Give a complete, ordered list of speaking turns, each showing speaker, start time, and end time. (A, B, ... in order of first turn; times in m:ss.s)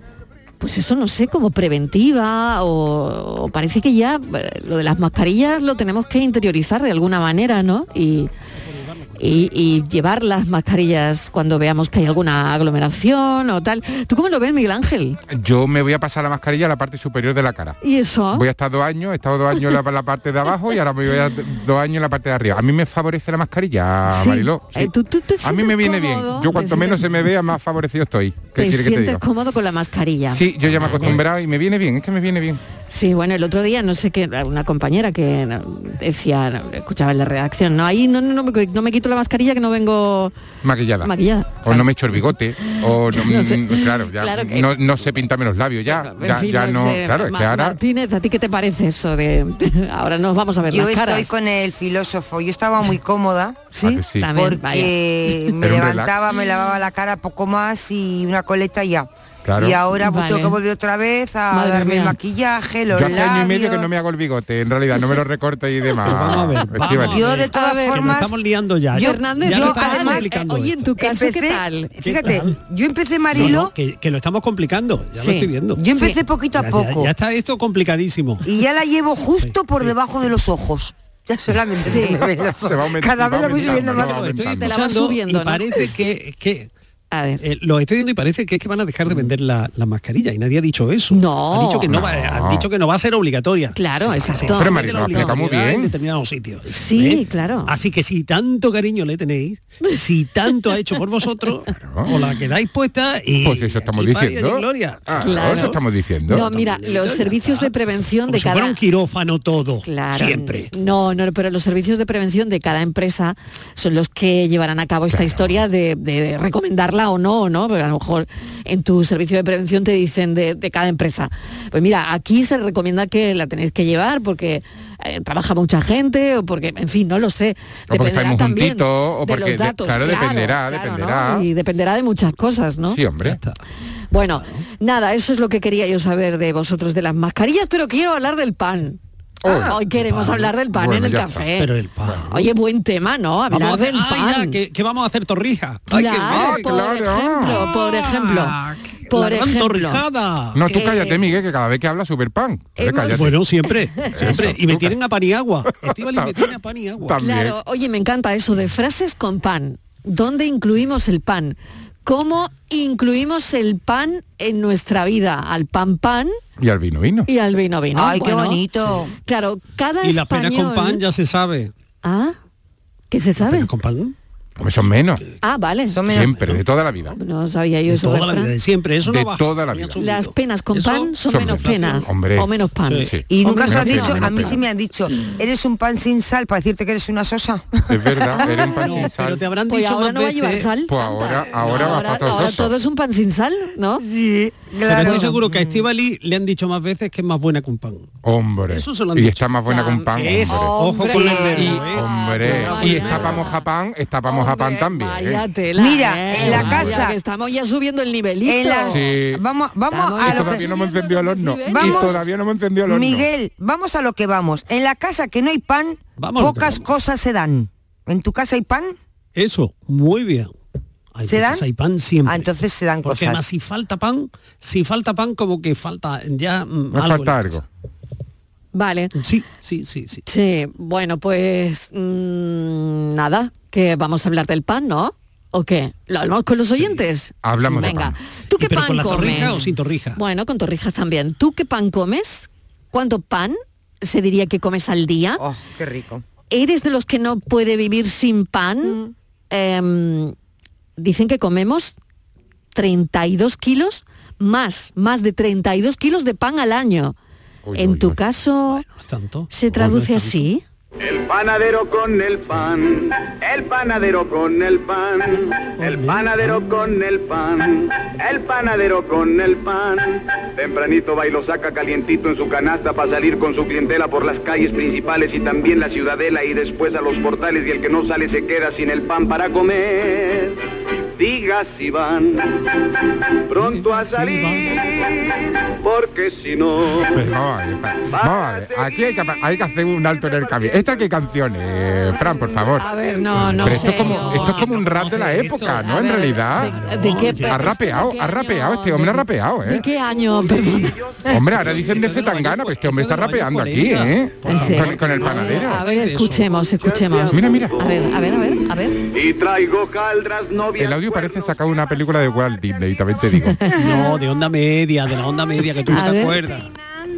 0:00.6-0:08.3 A
0:08.6-0:09.5 B
0:09.2-0:15.2 A
0:15.3-0:17.8 C
0:17.8-0:18.4 A
0:18.3-0:29.2 C
0:24.1-0:27.0 A
0:28.6-0:31.2 A
0:30.3-0:32.6 C
0:30.8-0:31.1 B
0:32.9-0:40.3 A
0:40.6-0:47.8 C
0:41.0-0:45.2 A
0:45.9-0:51.3 A
0:50.7-0:53.7 D
0:53.7-0:54.9 A
0:53.8-0:54.5 C
0:54.3-1:03.9 D
0:55.6-0:56.2 C
0:59.4-0:59.8 C
0:59.9-1:00.6 A
1:01.5-1:02.1 A
1:02.9-1:07.3 C
1:06.0-1:10.9 B
1:06.9-1:08.4 D
1:07.5-1:08.0 A
1:08.9-1:10.4 D
1:08.9-1:12.3 A
1:11.0-1:13.7 D
1:12.0-1:12.6 B
1:13.3-1:15.8 B
1:15.2-1:16.2 A
1:15.7-1:17.1 D
1:16.5-1:18.4 B
1:18.4-1:24.3 D
1:19.4-1:19.9 B
1:21.8-1:22.2 A
1:22.0-1:24.7 C
1:23.4-1:26.7 B
1:24.4-1:25.8 A
1:27.1-1:27.4 A
1:27.4-1:45.8 B
1:31.1-1:31.9 A
1:31.9-1:32.7 C
1:33.7-1:35.3 A
1:34.2-1:35.9 C
1:36.7-1:37.7 A
1:41.8-1:42.1 C
1:43.4-1:46.5 C
1:45.2-1:45.7 A
1:46.3-1:47.7 B
1:46.3-1:48.8 A
1:48.3-1:50.7 B
1:49.8-2:13.0 A
1:55.1-1:55.6 C
2:07.9-2:11.5 C
2:12.9-2:13.4 C
2:13.2-2:13.6 B
2:14.1-2:21.7 A
2:14.3-2:14.6 B
2:19.5-2:20.5 B
2:20.7-2:21.4 C
2:21.6-2:22.5 B
2:22.3-2:24.6 A
2:23.5-2:26.8 B
2:25.9-2:28.6 A
2:26.2-2:27.7 C
2:27.4-2:30.9 B
2:29.1-2:30.0 A
2:30.5-2:33.3 C
2:30.7-2:31.2 A
2:32.8-2:33.4 A
2:33.1-2:37.2 B
2:34.0-2:34.4 A
2:34.1-2:34.9 C
2:35.9-2:36.5 C
2:37.0-2:37.6 C
2:37.2-2:46.3 A
2:46.6-2:47.3 C
2:47.3-2:48.6 A
2:47.9-2:49.1 D
2:49.2-2:51.0 A
2:50.0-2:51.7 B
2:52.0-2:52.3 A
2:53.1-2:53.7 A
2:53.4-2:54.1 B
2:54.6-2:55.2 C
2:55.4-2:56.0 A
2:55.9-2:56.5 D
2:56.1-2:57.2 C
2:56.3-2:56.6 B
2:57.2-2:58.5 A
2:57.9-3:02.1 B
2:59.0-3:00.0 C
3:00.0-3:04.6 A
3:01.3-3:02.5 C
3:02.8-3:03.1 B
3:03.0-3:04.6 C
3:03.3-3:08.4 D
3:03.7-3:04.2 B
3:07.9-3:09.4 C
3:08.5-3:10.7 B
3:09.7-3:14.0 A
3:10.9-3:12.7 C
3:11.6-3:12.5 B
3:14.0-3:15.9 D
3:14.8-3:18.1 B
3:15.0-3:15.3 A
3:18.2-3:20.8 C
3:18.7-3:19.4 B
3:19.6-3:23.6 A
3:20.2-3:23.4 B
3:21.0-3:21.7 D
3:21.3-3:25.4 C
3:24.2-3:29.0 A
3:25.7-3:27.2 D
3:26.4-3:27.0 B
3:26.4-3:27.0 C
3:28.4-3:30.7 D
3:28.8-3:29.4 C
3:29.9-3:32.3 A
3:30.2-3:33.3 C
3:31.7-3:32.2 D
3:32.8-3:38.9 D
3:36.2-3:36.9 B
3:39.3-3:40.5 B
3:41.1-3:42.5 B
3:41.2-3:41.6 D
3:42.2-3:43.4 D
3:43.0-3:47.6 B
3:46.9-3:47.6 C
3:48.7-3:49.1 A
3:49.1-3:50.2 B
3:50.2-4:05.4 A
3:57.4-3:58.2 C
3:57.6-4:00.2 B
4:05.4-4:06.2 D
4:06.5-4:09.0 A
4:08.8-4:09.1 D
4:09.5-4:10.3 A
4:11.0-4:12.0 A
4:12.7-4:17.1 A
4:17.6-4:18.2 C
4:17.8-4:18.8 A
4:18.7-4:20.5 B
4:19.5-4:20.6 A
4:21.0-4:40.6 E
4:25.8-4:26.7 B
4:41.2-4:42.7 E
4:43.5-4:47.2 E
4:43.6-4:44.7 B
4:47.1-4:56.7 C
4:48.1-4:51.1 E
4:52.0-4:52.8 E
4:52.8-4:54.7 A
4:53.4-4:57.6 B
4:55.7-5:01.0 A
4:57.4-4:59.8 C
5:00.0-5:01.8 E
5:01.3-5:05.8 C
5:01.4-5:06.6 B
5:04.4-5:09.0 A
5:06.6-5:08.3 E
5:07.3-5:07.7 C
5:09.0-5:12.2 E
5:10.8-5:13.6 C
5:13.2-5:14.0 A
5:13.7-5:16.7 B
5:15.9-5:16.4 A